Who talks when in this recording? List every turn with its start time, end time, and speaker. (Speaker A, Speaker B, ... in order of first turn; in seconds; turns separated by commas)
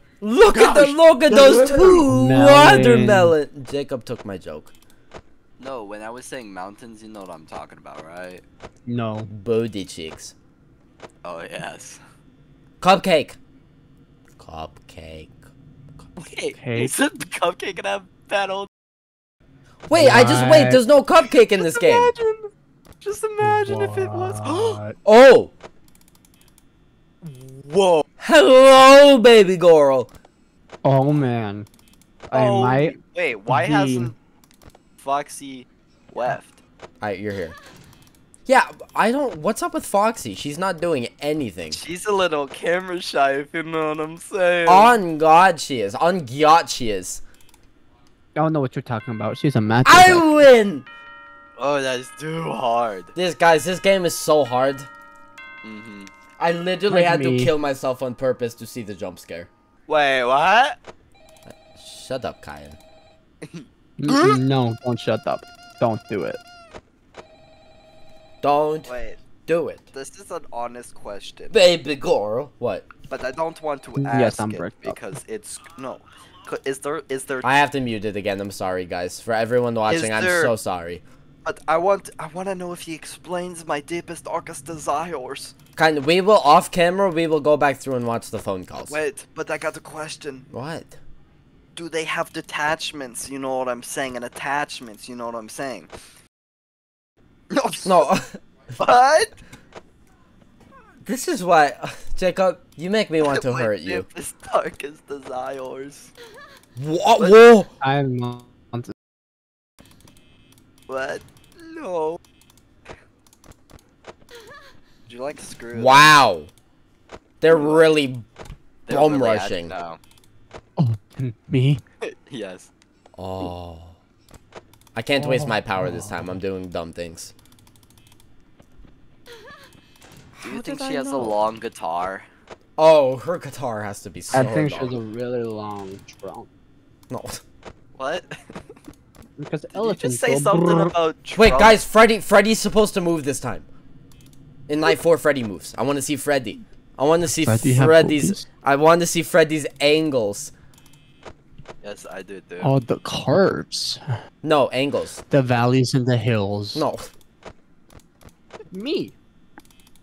Speaker A: 0.2-4.7, Speaker B: 0.5-3.3, Speaker C: 5.6-8.4, Speaker B: 8.9-9.3, Speaker A: 9.3-10.3, Speaker C: 11.2-12.0, Speaker A: 12.8-13.4, Speaker A: 14.4-15.3, Speaker C: 16.2-18.7, Speaker B: 16.5-16.9, Speaker A: 19.9-22.1, Speaker B: 19.9-20.8, Speaker C: 21.6-22.5, Speaker C: 23.0-24.8, Speaker B: 23.4-24.9, Speaker A: 25.0-25.5, Speaker C: 27.2-28.0, Speaker A: 28.2-30.1, Speaker B: 30.8-31.7, Speaker B: 32.3-34.1, Speaker C: 32.3-34.1, Speaker C: 35.0-36.6, Speaker A: 37.0-37.6, Speaker A: 38.5-41.8, Speaker C: 41.7-45.0, Speaker A: 44.6-47.2, Speaker B: 48.3-50.5, Speaker A: 49.8-50.9, Speaker C: 51.6-53.1, Speaker A: 53.1-54.9, Speaker C: 55.6-56.1, Speaker A: 56.4-59.5, Speaker B: 56.9-57.5, Speaker C: 59.9-60.8, Speaker A: 61.5-62.8, Speaker B: 64.0-66.4, Speaker A: 68.4-68.9, Speaker C: 68.9-69.2, Speaker A: 69.4-69.9, Speaker C: 69.9-71.6, Speaker A: 71.5-72.9, Speaker C: 73.1-77.5, Speaker B: 74.0-75.0, Speaker A: 77.4-81.0, Speaker C: 79.9-80.5, Speaker C: 81.4-85.5, Speaker A: 85.8-89.0, Speaker C: 88.9-90.5, Speaker A: 90.5-91.0, Speaker C: 91.8-95.9, Speaker C: 97.5-98.1, Speaker A: 97.8-98.4, Speaker C: 98.8-99.3, Speaker A: 101.0-104.0, Speaker C: 103.3-106.1, Speaker A: 106.8-107.7, Speaker B: 107.8-108.9, Speaker C: 110.9-112.2, Speaker C: 115.1-116.1, Speaker A: 115.7-116.5, Speaker A: 117.4-118.2, Speaker C: 117.5-117.9, Speaker C: 118.9-120.0, Speaker A: 118.9-119.7, Speaker B: 120.8-121.8, Speaker C: 122.0-122.7, Speaker A: 123.2-124.0, Speaker A: 125.0-127.3, Speaker B: 125.2-126.4, Speaker A: 130.3-131.3, Speaker C: 130.4-132.3, Speaker A: 132.8-135.0, Speaker B: 134.3-136.5, Speaker A: 137.1-137.4, Speaker C: 137.9-138.6, Speaker B: 139.4-140.9, Speaker C: 139.7-141.8, Speaker A: 141.4-143.7, Speaker A: 144.7-150.5, Speaker B: 147.3-148.4, Speaker C: 151.8-152.7, Speaker B: 152.6-154.0, Speaker A: 154.4-155.2, Speaker B: 155.3-156.8, Speaker A: 156.7-157.1, Speaker B: 158.7-159.1